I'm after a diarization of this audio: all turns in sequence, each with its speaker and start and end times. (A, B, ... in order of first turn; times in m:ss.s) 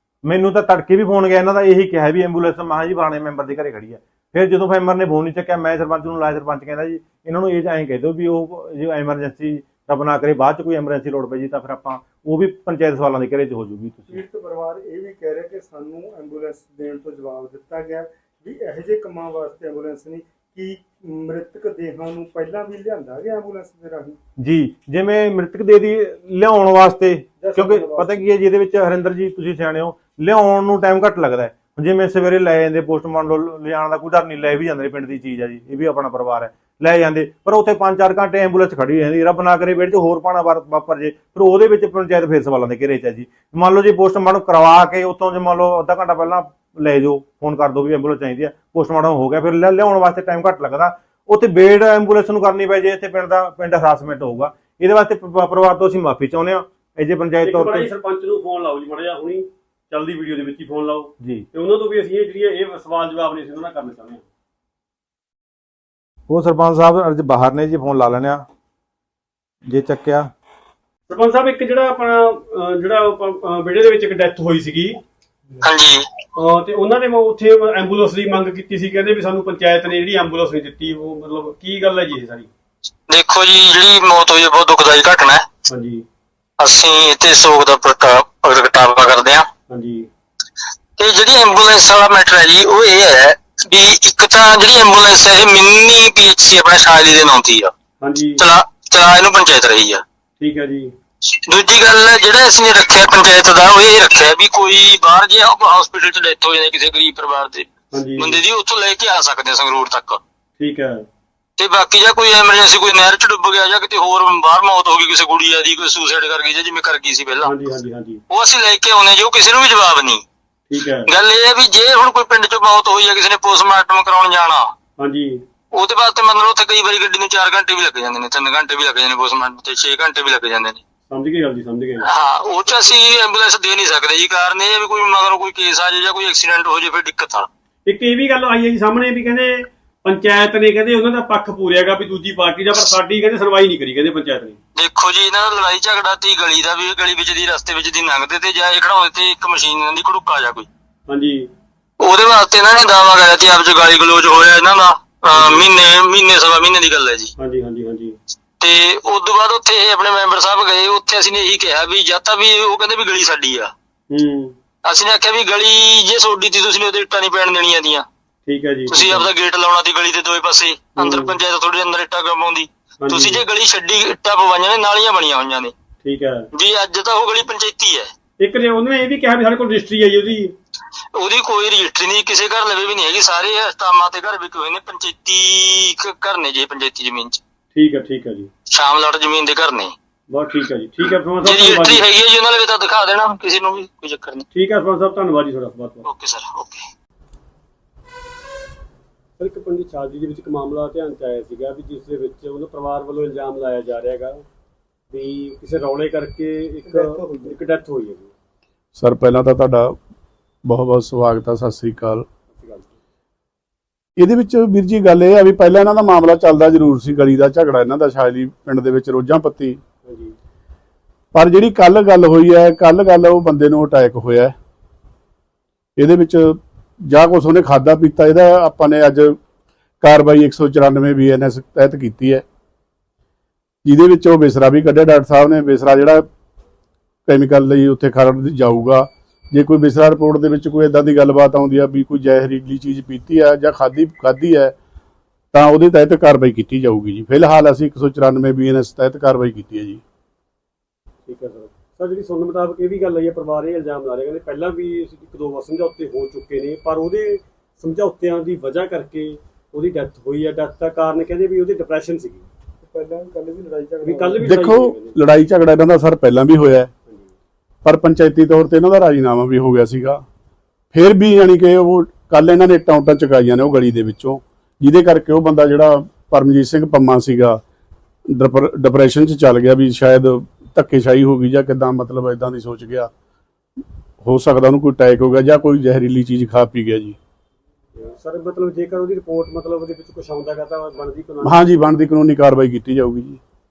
0:00.3-0:14.2 A
0:14.1-0:24.2 B
0:24.4-0:57.9 A
0:27.4-0:28.3 B
0:57.4-1:04.2 C
1:06.3-1:08.4 A
1:09.7-1:10.3 A
1:11.1-1:15.0 C
1:15.6-1:16.1 D
1:16.4-1:22.5 C
1:23.1-1:25.5 D
1:25.7-1:26.0 C
1:26.6-1:29.5 D
1:29.7-1:30.1 C
1:31.0-1:37.7 D
1:38.0-1:38.4 C
1:38.4-1:40.0 D
1:40.4-1:40.9 C
1:41.5-1:50.2 D
1:47.9-1:48.4 C
1:50.6-1:51.1 C
1:51.6-1:57.5 D
1:57.4-1:58.2 C
1:58.3-2:00.2 D
2:00.7-2:01.1 C
2:01.1-2:04.7 D
2:05.0-2:05.4 C
2:05.7-2:10.8 D
2:11.1-2:12.1 C
2:12.0-2:17.5 D
2:17.8-2:24.6 C
2:24.8-2:30.7 D
2:31.1-2:31.5 C
2:32.0-2:37.3 D
2:35.3-2:35.7 C
2:37.4-2:38.2 C
2:38.6-2:43.7 D
2:44.1-2:44.6 C
2:44.8-2:48.1 D
2:48.5-2:49.3 C
2:48.9-2:55.7 D
2:51.0-2:51.4 C
2:53.0-2:53.4 C
2:56.0-2:56.5 C
2:56.5-2:58.1 D
2:58.4-3:00.5 C
3:01.2-3:07.4 D
3:07.7-3:08.5 C
3:08.7-3:10.0 D
3:10.3-3:12.0 C
3:11.0-3:14.4 D
3:14.5-3:16.1 C
3:16.0-3:16.8 D
3:19.4-3:24.4 C
3:25.1-3:28.3 C
3:26.9-3:27.6 B
3:29.0-3:30.0 E
3:30.6-3:32.3 E
3:32.5-3:32.9 C
3:34.2-3:39.8 E
3:40.0-3:40.4 C
3:41.3-3:44.5 E
3:46.0-3:49.4 E
3:50.0-3:52.4 E
3:53.8-3:56.3 E
3:57.3-4:04.8 E
4:05.5-4:10.0 E
4:11.3-4:22.5 C
4:22.8-4:24.6 B
4:24.0-4:25.2 C
4:24.4-4:26.9 E
4:27.8-4:30.2 E
4:30.9-4:37.6 E
4:38.4-4:43.1 E
4:44.2-4:47.2 E
4:48.0-4:51.6 C
4:51.4-4:53.4 E